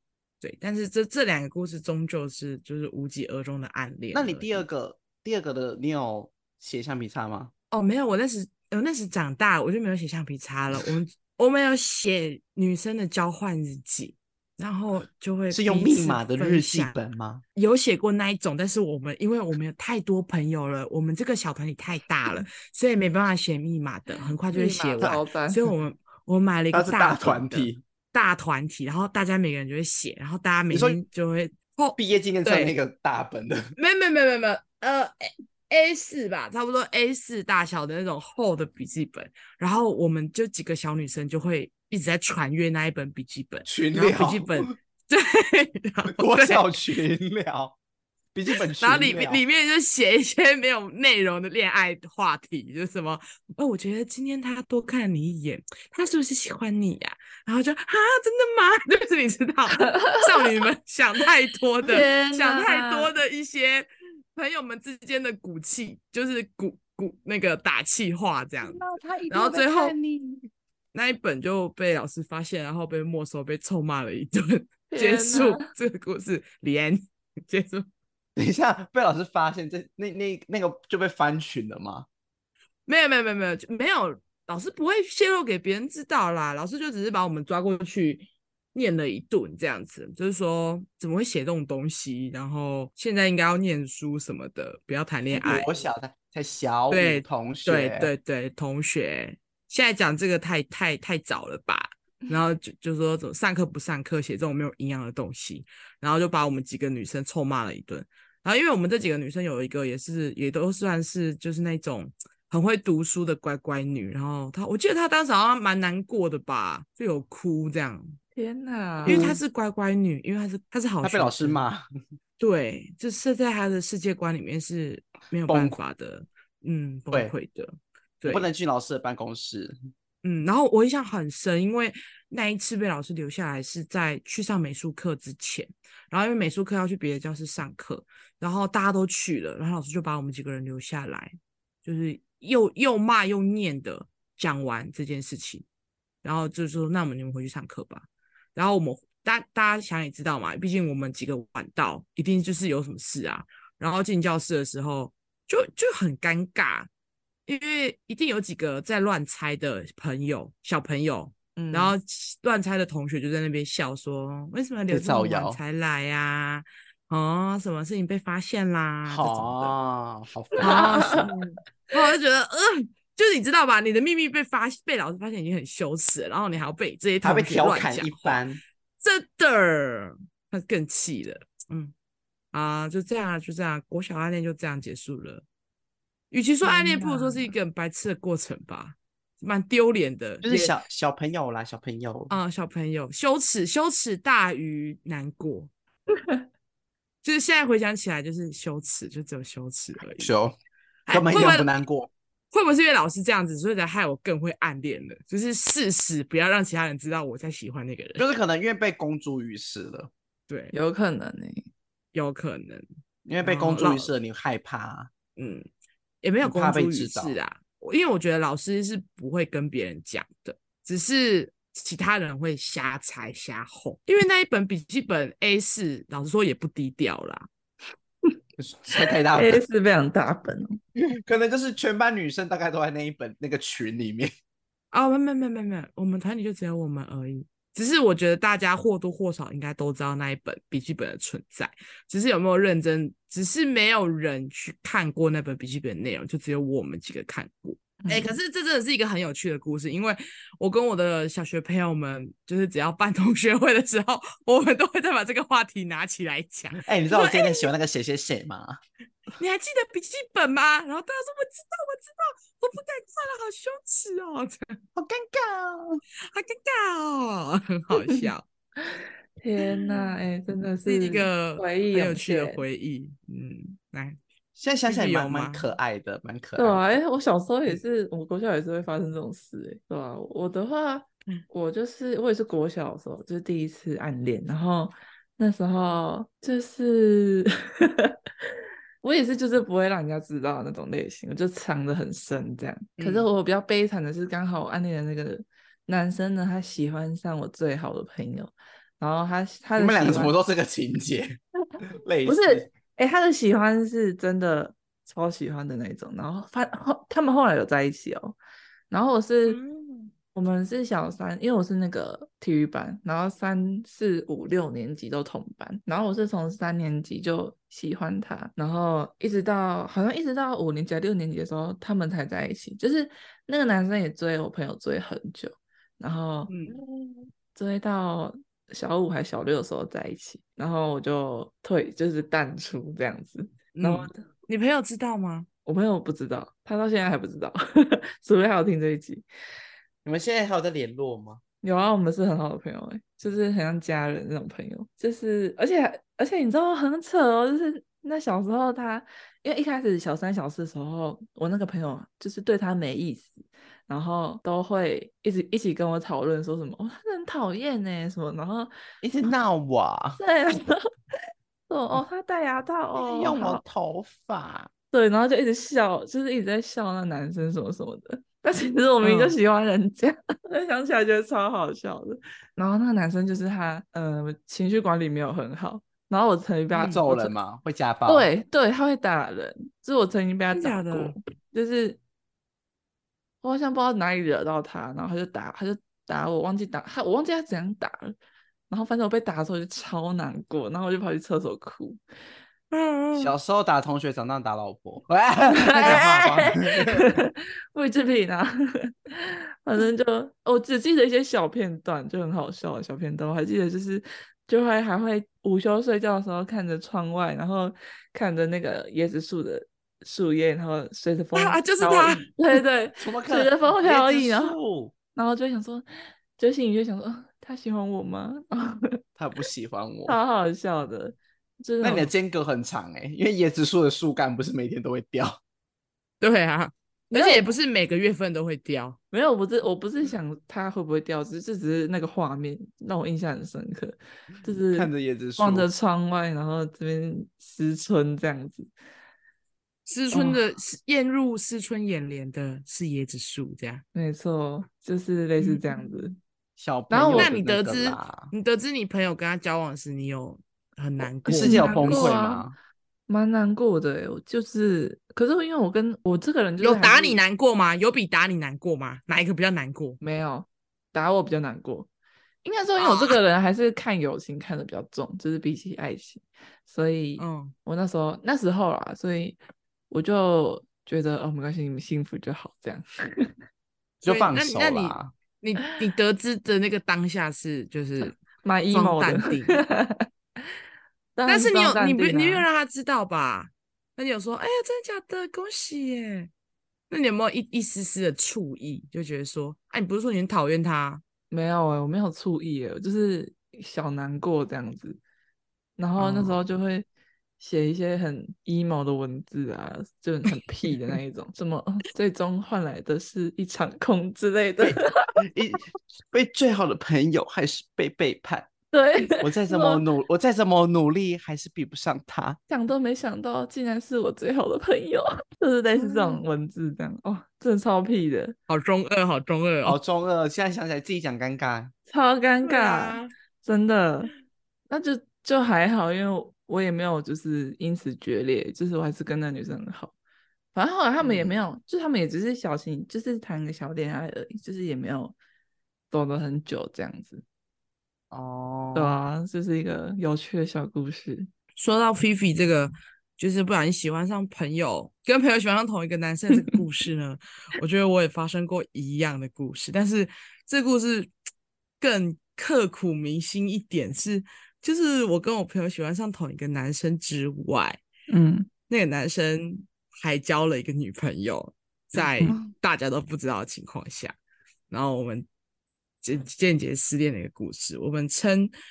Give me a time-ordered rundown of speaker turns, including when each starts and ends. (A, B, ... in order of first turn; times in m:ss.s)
0:00.4-0:04.6 A
0:04.1-0:07.5 B
0:07.7-0:16.9 A
0:15.5-0:17.4 B
0:17.6-0:32.7 A
0:24.5-0:25.6 C
0:26.7-0:27.8 B
0:30.7-0:31.0 B
0:32.0-0:33.7 B
0:33.8-0:46.8 A
0:43.7-0:44.8 B
0:46.1-0:47.8 B
0:48.3-0:49.4 B
0:48.8-1:10.0 A
0:59.8-1:00.3 C
1:01.8-1:03.1 C
1:08.6-1:10.4 B
1:10.9-1:17.9 A
1:14.9-1:15.7 C
1:18.4-1:22.1 B
1:22.9-1:35.7 A
1:35.3-1:38.1 B
1:36.9-1:58.2 A
1:58.4-1:59.4 C
1:59.0-1:59.4 B
1:59.1-2:01.6 A
2:01.0-2:01.8 B
2:02.4-2:08.5 A
2:05.5-2:05.8 B
2:08.3-2:09.8 B
2:10.2-2:25.7 A
2:26.2-2:36.9 A
2:37.5-2:49.7 A
2:41.6-2:42.0 C
2:44.9-2:45.6 B
2:49.1-2:51.2 B
2:50.6-2:58.4 A
2:50.6-2:51.3 C
2:57.2-2:58.6 B
2:59.0-3:01.9 A
3:02.5-3:05.4 A
3:06.3-3:10.5 A
3:06.6-3:07.5 C
3:10.4-3:12.3 B
3:12.3-3:15.7 A
3:17.2-3:20.3 A
3:20.2-3:20.6 B
3:21.1-3:21.7 A
3:21.1-3:22.1 B
3:22.5-3:28.3 A
3:28.2-3:30.1 B
3:30.5-3:30.7 A
3:30.7-3:31.7 C
3:32.1-3:32.8 A
3:33.3-3:35.1 B
3:33.4-3:34.1 A
3:35.4-3:35.7 A
3:36.2-3:47.5 A
3:36.4-3:37.4 B
3:48.6-3:49.6 B
3:49.0-3:50.8 C
3:51.0-3:54.3 B
3:54.9-4:17.7 A
4:08.0-4:08.4 C
4:16.8-4:18.8 B
4:19.4-4:24.8 A
4:25.0-4:26.0 B
4:26.3-4:28.4 A
4:27.9-4:28.2 C
4:28.9-4:32.6 C
4:29.7-4:30.1 A
4:30.9-4:34.2 A
4:34.6-4:36.8 B
4:34.9-4:35.7 A
4:36.6-4:48.2 C
4:49.0-5:00.3 C
4:59.8-5:01.4 B
5:02.0-5:02.7 B
5:02.3-5:08.4 C
5:08.9-5:09.6 C
5:09.5-5:10.1 A
5:10.4-5:34.3 C
5:26.5-5:26.8 A
5:33.7-5:35.5 A
5:35.7-5:39.2 C
5:40.0-5:41.4 B
5:41.6-5:58.7 C
5:59.0-6:00.2 B
6:00.2-6:00.8 C
6:01.7-6:03.6 C
6:03.0-6:04.7 B
6:04.9-6:17.4 C
6:09.0-6:09.4 A
6:16.7-6:17.0 A
6:16.9-6:18.3 B
6:18.1-6:22.0 C
6:20.5-6:21.2 A
6:23.4-6:28.2 C
6:28.7-6:32.0 C
6:32.7-6:33.3 A
6:33.2-6:37.2 B
6:35.5-6:54.6 C
6:51.4-6:52.6 A
6:53.0-6:54.9 B
6:55.2-6:55.9 C
6:56.4-6:59.0 C
6:59.2-7:00.2 B
7:00.1-7:02.1 C
7:01.8-7:05.4 B
7:06.2-7:09.0 A
7:07.1-7:07.5 C
7:09.1-7:18.7 C
7:14.7-7:15.7 B
7:19.9-7:23.8 A
7:20.1-7:20.4 C
7:24.0-7:26.2 C
7:25.4-7:25.7 A
7:26.6-7:28.3 B
7:26.9-7:27.3 C
7:27.1-7:32.2 A
7:31.2-7:32.5 C
7:31.3-7:32.6 B
7:33.1-7:37.2 C
7:36.6-7:40.0 A
7:40.0-7:41.9 C
7:42.4-7:49.4 C
7:42.8-7:43.2 A
7:47.2-7:47.5 A
7:49.9-7:53.3 C
7:54.0-7:55.1 B
7:54.0-7:58.2 A
7:58.0-8:00.1 C
7:58.7-7:59.6 A
8:01.2-8:02.5 C
8:01.3-8:06.3 A
8:06.9-8:11.0 A
8:11.3-8:15.0 C
8:15.8-8:16.9 C
8:16.0-8:16.3 A
8:17.4-8:25.2 C
8:24.6-8:28.5 B
8:28.7-8:29.8 C
8:29.2-8:32.4 B
8:32.5-8:38.4 C
8:35.8-8:36.2 A
8:38.5-8:39.8 A
8:39.6-8:41.7 B
8:41.9-8:44.1 C
8:42.4-8:43.1 A
8:44.7-8:49.9 C
8:50.6-8:55.2 C
8:51.0-8:51.4 B
8:55.9-8:57.2 C
8:58.1-8:59.0 B
8:58.8-9:01.3 C
9:01.6-9:11.1 A
9:11.8-9:17.8 A
9:18.1-9:18.5 C
9:18.7-9:24.2 A
9:22.2-9:22.5 B
9:24.7-9:25.3 A
9:26.0-9:28.5 A